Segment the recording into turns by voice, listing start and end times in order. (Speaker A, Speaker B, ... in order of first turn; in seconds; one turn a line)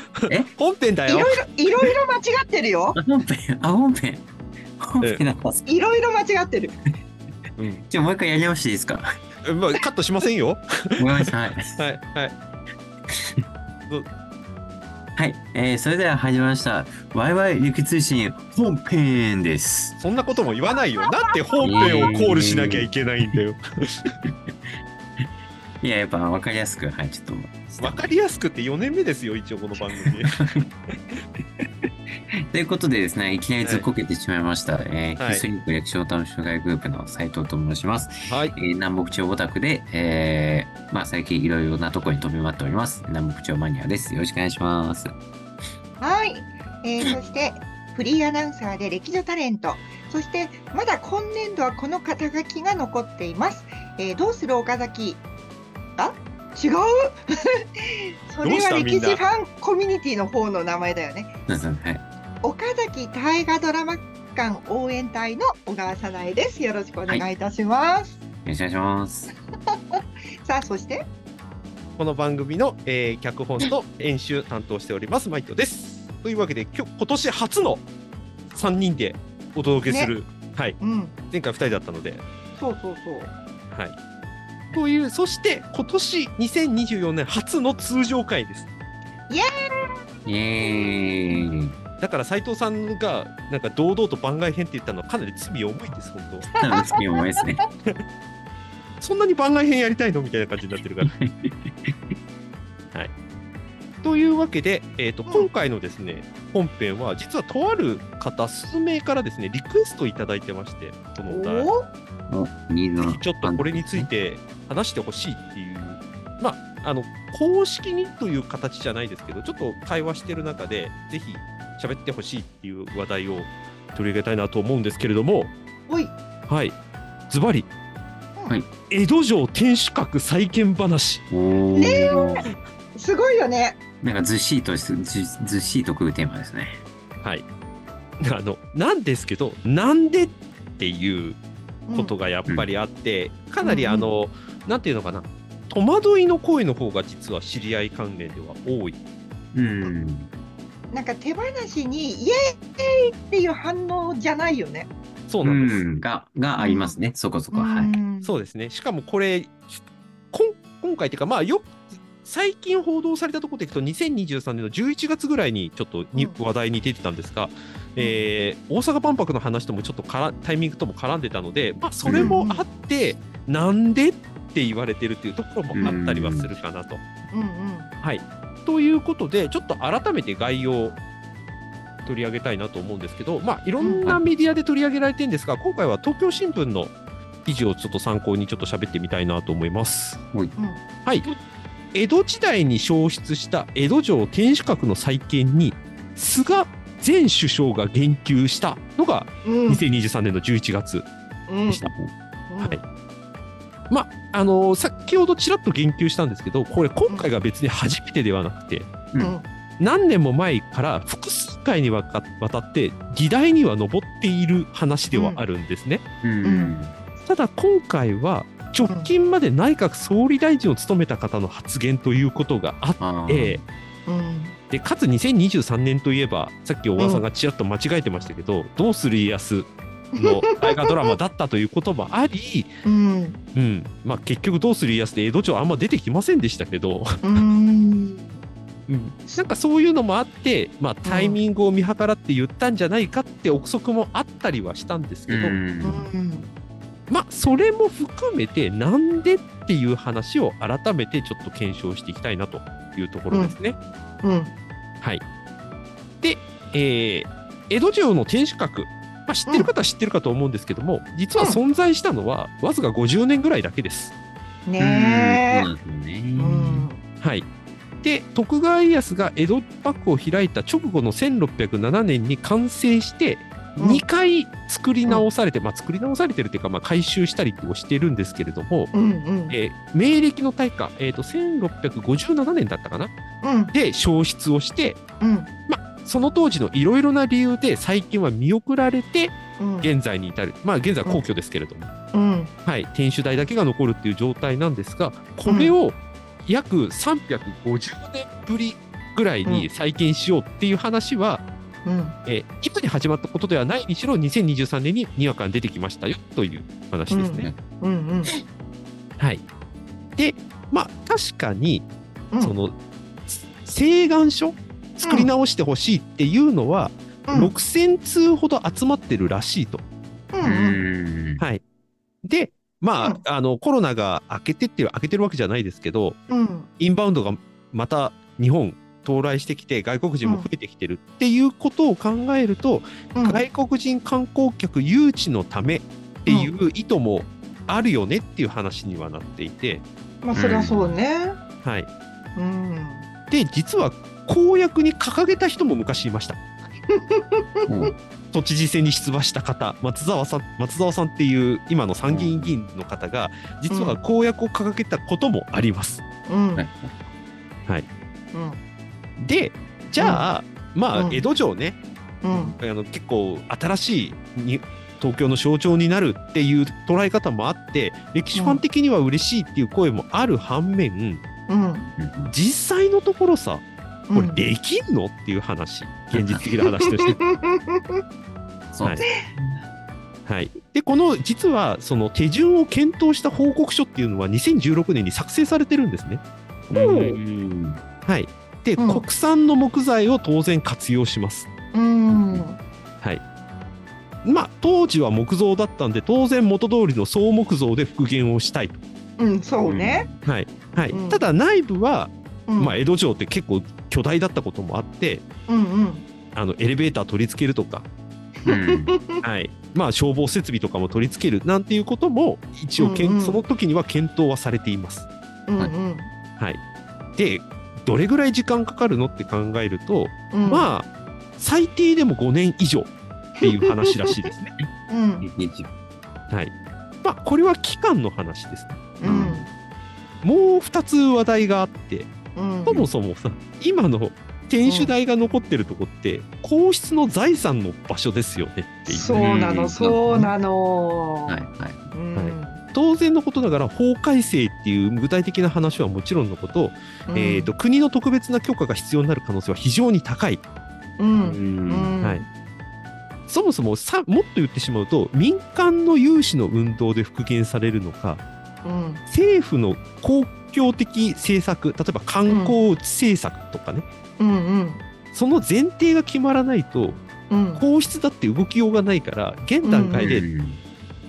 Speaker A: 0.2-1.5
Speaker B: 1.1-3.0
Speaker C: 3.0-4.3
Speaker C: 4.8-5.7
Speaker B: 5.7-6.7
Speaker A: 7.6-7.8
Speaker C: 7.9-9.1
Speaker A: 9.4-12.3
Speaker C: 11.0-11.8
Speaker C: 13.1-13.4
Speaker C: 15.2-20.0
Speaker A: 20.0-24.1
Speaker C: 21.6-23.4
Speaker C: 24.2-25.3
Speaker C: 25.8-28.1
Speaker A: 27.8-30.4
Speaker C: 30.0-30.7
Speaker C: 31.6-31.9
Speaker C: 32.5-45.1
Speaker A: 35.2-35.5
Speaker A: 38.3-38.6
Speaker B: 46.0-55.2
Speaker B: 56.0-57.1
Speaker B: 58.3-61.3
Speaker A: 58.4-59.2
Speaker C: 61.5-62.0
Speaker B: 62.4-68.2
Speaker C: 68.5-69.3
Speaker B: 69.7-71.0
Speaker A: 72.0-77.9
Speaker A: 78.5-82.2
Speaker B: 80.8-81.1
Speaker B: 82.6-83.3
Speaker A: 83.7-84.0
Speaker A: 84.7-88.7
Speaker B: 89.3-89.9
Speaker C: 90.3-91.8
Speaker B: 90.6-90.9
Speaker A: 92.0-96.5
Speaker B: 96.6-97.0
Speaker C: 96.6-97.6
Speaker A: 99.0-101.1
Speaker C: 101.1-102.1
Speaker A: 104.0-111.7
Speaker B: 111.3-111.9
Speaker C: 112.3-114.1
Speaker A: 113.0-125.5
Speaker B: 125.9-126.1
Speaker A: 126.5-126.8
Speaker A: 127.3-127.7
Speaker A: 128.9-131.2
Speaker C: 131.3-132.4
Speaker B: 131.8-133.8
Speaker C: 134.0-136.8
Speaker A: 138.2-141.4
Speaker B: 141.9-142.1
Speaker A: 141.9-149.0
Speaker B: 143.6-144.1
Speaker C: 149.5-150.3
Speaker B: 150.9-154.9
Speaker A: 155.3-155.8
Speaker C: 155.4-158.0
Speaker B: 156.6-156.9
Speaker B: 157.5-158.3
Speaker A: 158.2-159.8
Speaker A: 160.3-177.0
Speaker C: 172.0-172.4
Speaker B: 172.1-172.7
Speaker C: 175.7-176.5
Speaker B: 177.3-177.9
Speaker A: 178.0-181.0
Speaker A: 182.1-186.9
Speaker B: 183.8-184.1
Speaker A: 187.4-190.2
Speaker B: 190.6-191.3
Speaker A: 191.9-201.1
Speaker B: 199.4-199.8
Speaker B: 201.5-201.8
Speaker B: 202.5-202.8
Speaker A: 203.9-208.9
Speaker B: 209.2-209.4
Speaker A: 209.8-216.0
Speaker B: 215.1-215.4
Speaker C: 216.2-216.9
Speaker B: 216.4-216.7
Speaker A: 217.2-223.6
Speaker B: 218.8-219.1
Speaker C: 223.0-223.7
Speaker B: 224.1-224.6
Speaker A: 224.7-232.7
Speaker B: 227.0-227.2
Speaker B: 230.2-231.2
Speaker B: 232.8-233.4
Speaker A: 233.6-237.4
Speaker B: 237.2-238.4
Speaker A: 238.9-245.6
Speaker B: 241.1-241.4
Speaker C: 245.3-246.1
Speaker B: 245.8-246.5
Speaker A: 247.1-253.8
Speaker B: 254.2-254.5
Speaker A: 256.2-264.1
Speaker B: 264.7-265.7
Speaker C: 264.8-266.9
Speaker B: 266.4-267.0
Speaker A: 267.2-267.5
Speaker A: 268.0-278.9
Speaker B: 273.8-274.0
Speaker B: 278.9-279.6
Speaker A: 279.5-283.1
Speaker B: 283.4-283.7
Speaker A: 283.7-285.0
Speaker B: 285.2-285.5
Speaker A: 285.7-291.9
Speaker B: 289.6-289.9
Speaker B: 292.1-292.5
Speaker A: 292.7-301.4
Speaker B: 295.5-295.8
Speaker B: 301.9-302.2
Speaker A: 302.3-307.5
Speaker B: 307.1-308.3
Speaker A: 310.2-311.9
Speaker A: 312.4-312.8
Speaker A: 313.3-319.8
Speaker B: 315.0-315.3
Speaker B: 317.3-317.5
Speaker B: 320.3-320.8
Speaker C: 320.4-321.4
Speaker A: 322.2-326.2
Speaker B: 326.3-326.7
Speaker A: 326.8-339.9
Speaker B: 333.1-333.4
Speaker B: 336.3-336.5
Speaker B: 340.2-341.4
Speaker C: 340.3-341.0
Speaker A: 341.6-341.9
Speaker B: 342.4-343.1
Speaker A: 343.3-346.4
Speaker B: 346.9-347.9
Speaker C: 347.7-347.9
Speaker A: 348.3-356.0
Speaker C: 352.1-352.6
Speaker B: 353.7-354.0
Speaker B: 356.3-356.6
Speaker C: 356.6-357.1
Speaker B: 358.3-358.6
Speaker A: 359.2-361.8
Speaker B: 360.0-360.3
Speaker B: 360.9-361.2
Speaker B: 362.2-362.6
Speaker A: 362.6-371.2
Speaker B: 368.4-368.6
Speaker B: 371.5-371.9
Speaker C: 371.9-372.3
Speaker A: 372.3-377.2
Speaker B: 374.1-374.4
Speaker C: 376.1-376.4
Speaker B: 376.8-378.0
Speaker C: 378.7-379.6
Speaker B: 379.0-379.3
Speaker A: 380.3-387.2
Speaker C: 386.7-387.8
Speaker A: 388.1-391.5
Speaker B: 388.8-389.0
Speaker B: 391.7-392.6
Speaker C: 392.1-392.5
Speaker A: 394.2-398.8
Speaker B: 399.2-400.1
Speaker C: 399.7-400.2
Speaker A: 400.2-405.2
Speaker B: 400.9-401.2
Speaker B: 402.5-402.8
Speaker B: 405.5-406.1
Speaker A: 406.4-407.9
Speaker B: 408.4-409.2
Speaker C: 408.5-409.0
Speaker A: 409.2-415.1
Speaker B: 412.8-413.4
Speaker B: 415.5-416.1
Speaker A: 417.2-424.5
Speaker B: 420.3-420.7
Speaker B: 423.4-424.1
Speaker B: 424.9-425.3
Speaker C: 425.2-425.7
Speaker A: 427.0-428.9
Speaker B: 429.0-429.5
Speaker C: 429.0-429.5
Speaker A: 430.2-432.1
Speaker B: 432.4-432.9
Speaker A: 432.7-439.3
Speaker B: 434.6-434.9
Speaker B: 438.9-441.4
Speaker C: 439.1-440.3
Speaker C: 441.3-441.8
Speaker B: 441.9-442.6
Speaker A: 442.2-450.4
Speaker B: 447.1-447.5
Speaker B: 451.0-452.3
Speaker C: 451.2-452.0
Speaker A: 453.3-458.2
Speaker B: 458.6-459.0
Speaker A: 459.1-463.9
Speaker B: 462.3-462.6
Speaker B: 464.2-464.8
Speaker A: 465.1-467.0
Speaker B: 467.3-467.6
Speaker A: 467.6-470.3
Speaker B: 469.6-470.1
Speaker C: 470.0-470.6